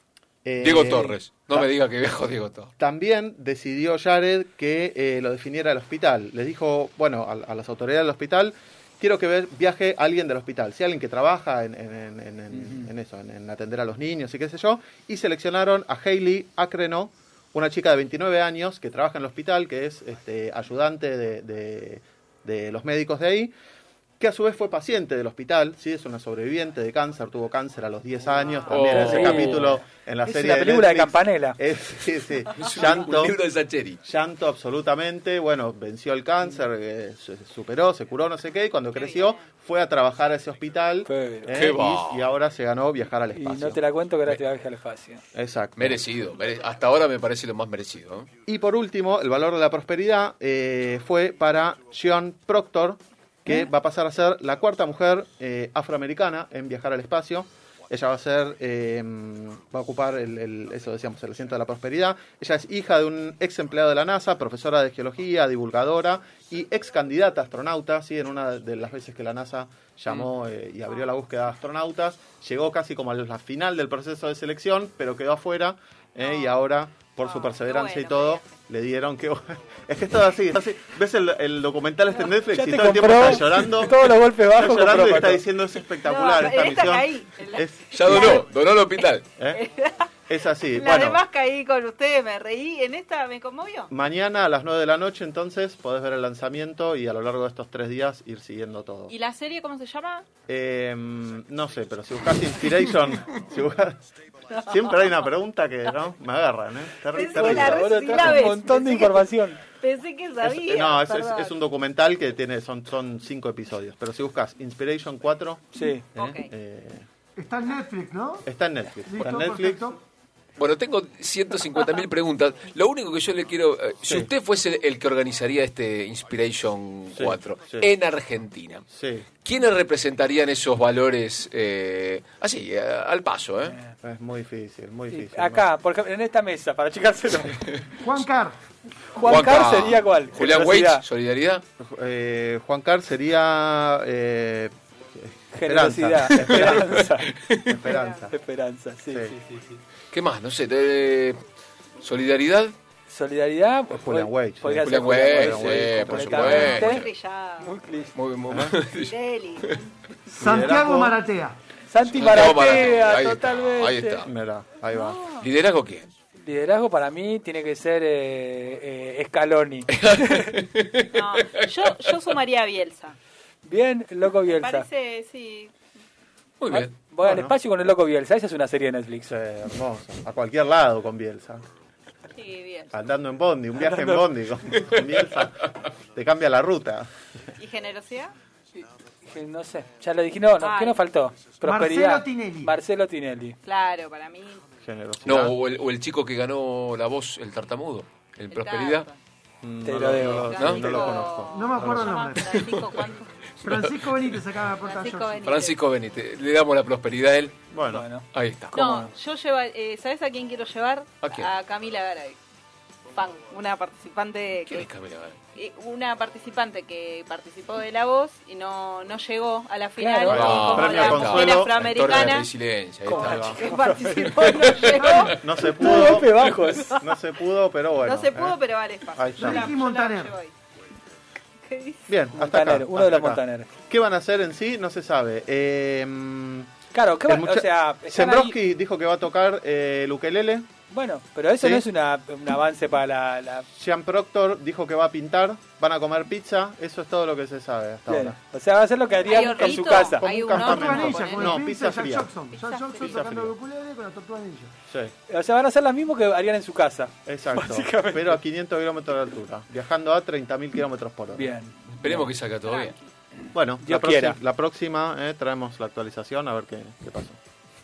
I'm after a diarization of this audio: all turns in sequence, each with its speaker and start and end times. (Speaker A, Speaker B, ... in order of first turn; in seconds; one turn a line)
Speaker A: 0.4-1.7
Speaker B: 0.6-2.7
Speaker A: 2.8-23.5
Speaker C: 12.5-12.9
Speaker A: 24.2-33.4
Speaker B: 28.7-29.6
Speaker C: 28.9-31.6
Speaker B: 32.5-34.0
Speaker A: 34.0-43.8
Speaker D: 39.0-39.4
Speaker C: 41.0-41.5
Speaker B: 41.5-42.2
Speaker C: 43.4-45.2
Speaker A: 45.3-46.0
Speaker B: 45.8-48.3
Speaker A: 48.5-84.0
Speaker D: 76.2-76.6
Speaker D: 77.2-78.5
Speaker C: 82.5-85.4
Speaker A: 84.5-88.4
Speaker D: 86.0-88.4
Speaker B: 87.9-89.4
Speaker D: 89.0-90.1
Speaker A: 90.3-91.2
Speaker D: 90.7-93.9
Speaker A: 93.9-99.1
Speaker D: 99.1-100.3
Speaker A: 100.5-104.0
Speaker A: 104.6-108.5
Speaker D: 107.1-111.5
Speaker C: 107.3-109.6
Speaker A: 110.4-117.0
Speaker C: 115.7-116.0
Speaker D: 116.2-116.5
Speaker E: 117.4-118.5
Speaker A: 118.5-120.0
Speaker E: 119.1-120.0
Speaker B: 120.6-128.8
Speaker A: 124.0-124.3
Speaker A: 127.1-127.9
Speaker A: 128.9-129.3
Speaker B: 129.4-133.8
Speaker A: 134.0-135.7
Speaker C: 135.1-137.8
Speaker E: 138.0-138.6
Speaker C: 139.1-141.0
Speaker B: 139.2-141.6
Speaker A: 141.8-147.1
Speaker C: 145.5-147.3
Speaker B: 146.3-147.8
Speaker A: 147.7-148.3
Speaker D: 147.8-148.3
Speaker C: 148.2-149.8
Speaker A: 149.1-149.3
Speaker B: 150.1-151.4
Speaker B: 152.0-152.8
Speaker C: 153.1-157.0
Speaker A: 153.9-156.9
Speaker B: 154.8-157.1
Speaker D: 156.5-157.7
Speaker C: 157.6-158.1
Speaker B: 158.1-159.8
Speaker A: 158.5-158.7
Speaker D: 158.9-159.9
Speaker A: 160.3-161.2
Speaker E: 160.3-161.6
Speaker C: 161.9-164.2
Speaker B: 162.1-164.3
Speaker A: 164.2-165.2
Speaker D: 164.9-165.5
Speaker B: 165.4-166.1
Speaker C: 166.4-170.4
Speaker B: 169.9-172.3
Speaker D: 171.1-173.2
Speaker C: 173.6-174.8
Speaker D: 174.4-175.7
Speaker B: 176.6-176.9
Speaker C: 176.7-179.3
Speaker A: 177.2-177.5
Speaker A: 179.2-181.6
Speaker D: 182.3-183.0
Speaker A: 182.9-187.1
Speaker C: 183.8-184.3
Speaker D: 187.6-188.3
Speaker C: 188.8-193.6
Speaker D: 190.6-191.0
Speaker E: 191.6-192.8
Speaker D: 193.6-194.6
Speaker A: 194.8-195.6
Speaker B: 195.2-199.1
Speaker D: 198.5-199.2
Speaker A: 199.6-202.2
Speaker C: 199.8-200.6
Speaker D: 200.1-203.4
Speaker B: 200.6-201.0
Speaker E: 201.5-202.6
Speaker B: 202.5-203.0
Speaker B: 203.6-204.4
Speaker E: 203.6-205.4
Speaker D: 204.8-205.8
Speaker B: 205.4-207.6
Speaker A: 207.7-208.1
Speaker C: 207.8-209.1
Speaker B: 208.3-208.8
Speaker D: 208.7-212.4
Speaker B: 211.2-211.5
Speaker D: 213.1-214.9
Speaker B: 214.6-215.4
Speaker D: 215.5-222.5
Speaker C: 220.0-220.3
Speaker B: 220.2-223.6
Speaker A: 220.3-222.4
Speaker D: 223.1-225.4
Speaker C: 223.1-225.2
Speaker A: 223.2-223.6
Speaker E: 224.9-226.0
Speaker A: 225.2-228.6
Speaker C: 225.8-227.0
Speaker D: 228.0-230.5
Speaker A: 229.1-229.8
Speaker E: 229.4-230.3
Speaker D: 231.6-232.1
Speaker A: 232.1-236.7
Speaker C: 232.3-233.7
Speaker C: 236.9-238.6
Speaker A: 237.2-240.7
Speaker C: 240.9-243.7
Speaker A: 241.6-241.8
Speaker A: 243.8-248.4
Speaker C: 248.1-250.3
Speaker D: 249.2-251.5
Speaker A: 249.6-252.3
Speaker E: 250.6-254.7
Speaker D: 252.5-253.3
Speaker A: 253.0-253.5
Speaker A: 254.9-255.1
Speaker C: 255.3-258.4
Speaker A: 257.2-261.5
Speaker C: 261.3-262.2
Speaker B: 261.9-263.0
Speaker D: 262.6-263.1
Speaker A: 263.5-267.4
Speaker C: 263.8-264.4